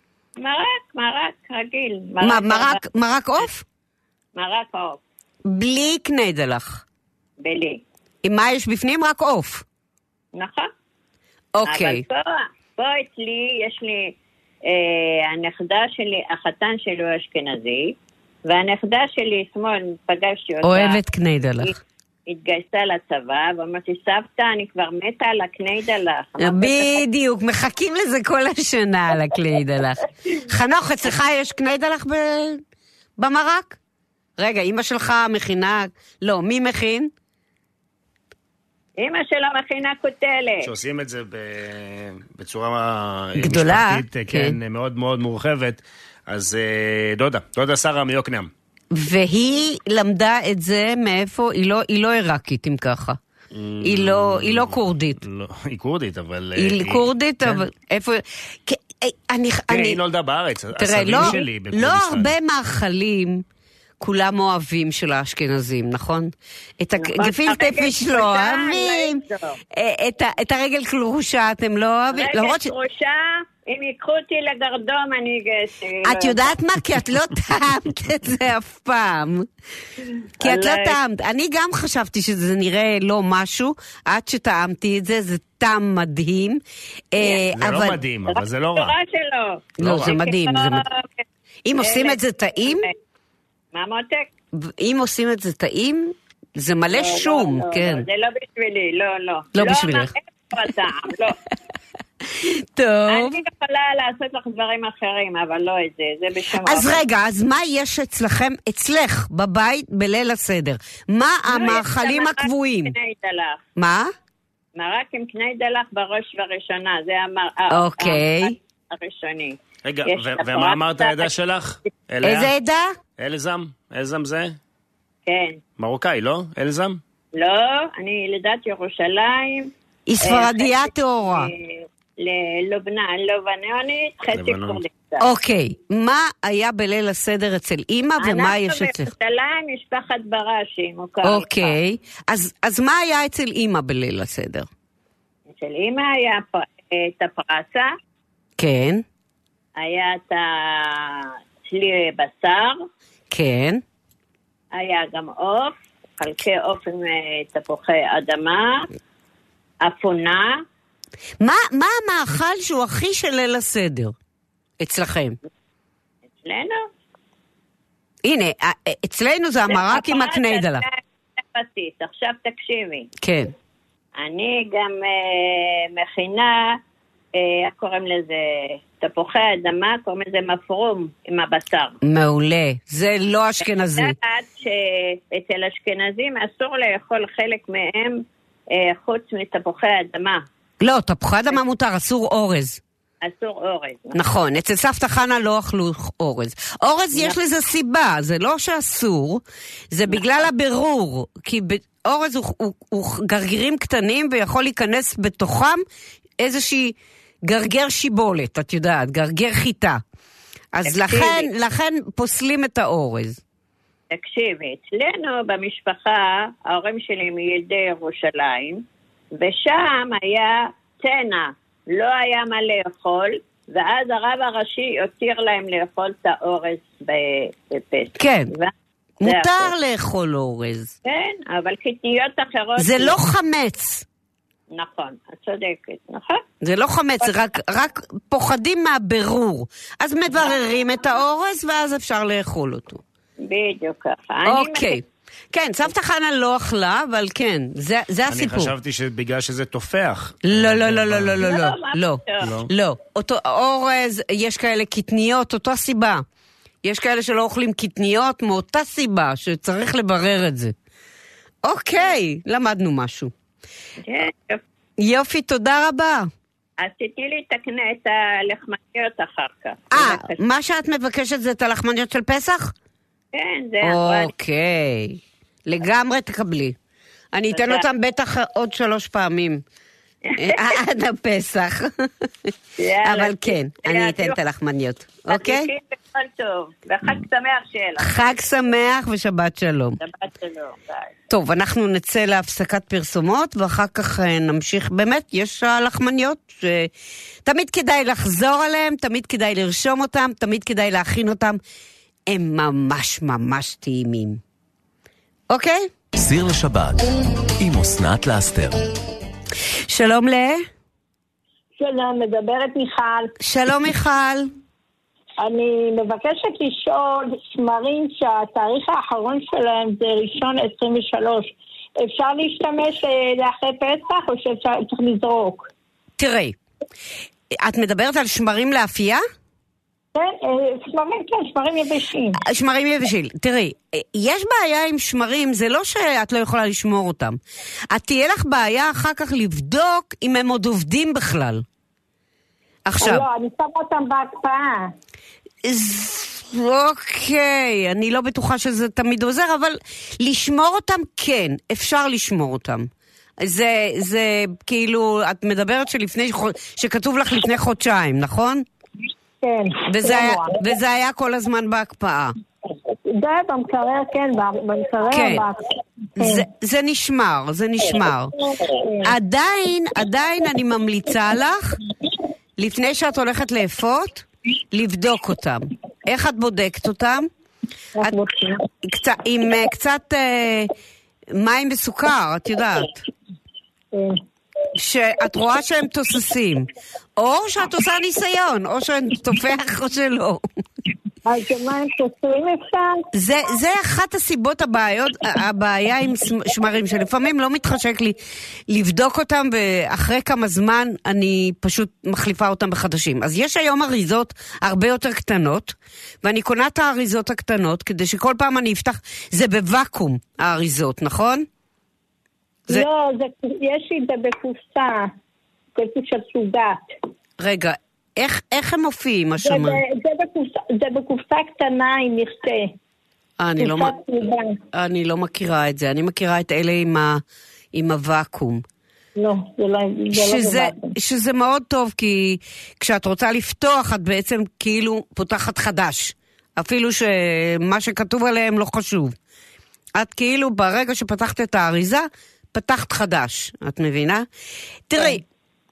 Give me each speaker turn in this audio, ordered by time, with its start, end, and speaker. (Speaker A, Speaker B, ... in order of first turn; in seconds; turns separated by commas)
Speaker A: 0.4-2.8, Speaker B: 2.2-3.6, Speaker A: 4.4-5.0, Speaker B: 5.5-6.8, Speaker A: 7.4-7.8, Speaker B: 8.2-9.7, Speaker A: 10.3-10.7, Speaker B: 11.6-12.0, Speaker A: 11.7-14.2, Speaker A: 14.7-21.0, Speaker B: 20.6-21.8, Speaker A: 22.3-27.0, Speaker B: 26.4-32.6, Speaker B: 33.2-33.8, Speaker B: 34.4-37.1, Speaker A: 39.0-40.7, Speaker C: 40.6-48.5, Speaker B: 43.4-44.6, Speaker B: 48.9-53.2, Speaker C: 53.5-57.7, Speaker B: 53.8-55.2, Speaker B: 56.6-60.0, Speaker C: 59.7-62.3, Speaker B: 60.8-63.5, Speaker B: 64.0-69.2, Speaker A: 67.0-69.6, Speaker B: 69.7-72.7, Speaker A: 72.1-76.5, Speaker B: 76.0-79.5, Speaker A: 80.4-81.0, Speaker B: 80.4-86.6, Speaker B: 87.1-88.0, Speaker C: 87.6-88.9, Speaker A: 88.3-91.2, Speaker B: 89.8-90.8, Speaker C: 89.8-90.2, Speaker B: 91.7-92.9, Speaker A: 91.8-92.9, Speaker A: 93.7-94.3, Speaker B: 94.5-98.0, Speaker A: 96.9-101.4, Speaker B: 99.5-100.1, Speaker B: 102.4-103.4, Speaker A: 103.1-107.0, Speaker B: 106.6-112.9, Speaker A: 111.5-113.6, Speaker B: 113.8-114.1, Speaker A: 114.8-121.3, Speaker B: 117.7-118.6, Speaker C: 119.8-122.5, Speaker B: 122.2-123.0, Speaker C: 123.2-124.5, Speaker A: 125.3-125.6, Speaker C: 125.8-127.0, Speaker A: 127.4-135.2, Speaker B: 130.1-131.5, Speaker C: 134.3-134.8, Speaker B: 135.2-139.1, Speaker A: 138.2-141.8, Speaker B: 141.2-144.7, Speaker A: 145.5-147.9, Speaker B: 148.6-149.0, Speaker A: 149.8-152.8, Speaker B: 153.3-153.8, Speaker A: 154.7-158.9, Speaker A: 159.8-160.6, Speaker B: 161.4-164.1, Speaker B: 164.8-165.4, Speaker A: 166.4-166.9, Speaker B: 168.2-170.8, Speaker A: 169.7-173.1, Speaker B: 173.2-173.5, Speaker A: 174.2-176.8, Speaker A: 177.3-182.0, Speaker B: 182.0-184.2, Speaker A: 183.9-190.4, Speaker B: 190.8-192.8, Speaker A: 193.2-194.2, Speaker B: 194.2-205.8, Speaker B: 206.4-210.0, Speaker B: 210.7-213.4, Speaker A: 210.9-211.5, Speaker A: 214.1-218.8, Speaker A: 219.3-228.7, Speaker B: 228.2-228.5, Speaker B: 229.2-230.9, Speaker A: 229.2-229.7, Speaker A: 231.0-233.2, Speaker B: 232.8-234.1, Speaker A: 234.7-236.4, Speaker B: 236.6-243.0, Speaker A: 243.4-245.0, Speaker B: 244.4-248.7, Speaker C: 248.3-251.4, Speaker B: 250.4-256.2, Speaker A: 251.4-252.5, Speaker C: 252.4-252.7, Speaker B: 256.8-260.8, Speaker B: 261.6-263.3, Speaker A: 264.0-264.6, Speaker B: 265.0-266.3, Speaker A: 266.8-270.4, Speaker B: 269.9-272.7, Speaker A: 273.3-274.3, Speaker B: 273.8-276.8, Speaker B: 277.3-279.6, Speaker A: 277.5-277.8, Speaker A: 280.2-280.8, Speaker B: 280.4-282.3, Speaker A: 282.8-284.4, Speaker B: 283.0-285.7, Speaker A: 285.3-288.2, Speaker B: 288.0-290.0, Speaker A: 290.0-291.1, Speaker B: 291.3-296.9, Speaker B: 297.4-301.6, Speaker B: 302.3-304.4, Speaker B: 305.5-305.9, Speaker D: 306.2-308.8, Speaker B: 309.9-310.6, Speaker E: 311.8-313.3, Speaker B: 313.4-314.5, Speaker E: 315.4-325.7, Speaker B: 326.2-326.6, Speaker B: 327.6-329.2, Speaker E: 330.1-332.4, Speaker B: 332.4-341.6, Speaker B: 342.9-343.3, Speaker E: 343.0-344.9, Speaker B: 345.6-358.7, Speaker E: 359.4-360.6, Speaker B: 359.9-362.4, Speaker E: 363.1-365.6, Speaker B: 365.1-365.4, Speaker B: 366.2-368.3, Speaker E: 366.2-366.5, Speaker E: 368.6-369.1, Speaker B: 369.0-371.8, Speaker B: 372.6-377.3, Speaker E: 378.0-378.6, Speaker B: 378.8-380.7, Speaker B: 381.3-383.0, Speaker E: 383.9-384.2, Speaker B: 384.8-390.4, Speaker E: 391.2-393.1, Speaker B: 393.1-411.5, Speaker E: 412.7-415.1, Speaker E: 415.8-416.9, Speaker B: 417.4-419.8, Speaker E: 419.4-422.7, Speaker B: 423.4-424.0, Speaker E: 423.6-424.6, Speaker B: 424.7-427.2, Speaker B: 427.7-428.6, Speaker E: 429.2-430.9, Speaker B: 430.1-439.1, Speaker B: 439.9-444.3, Speaker B: 444.9-445.2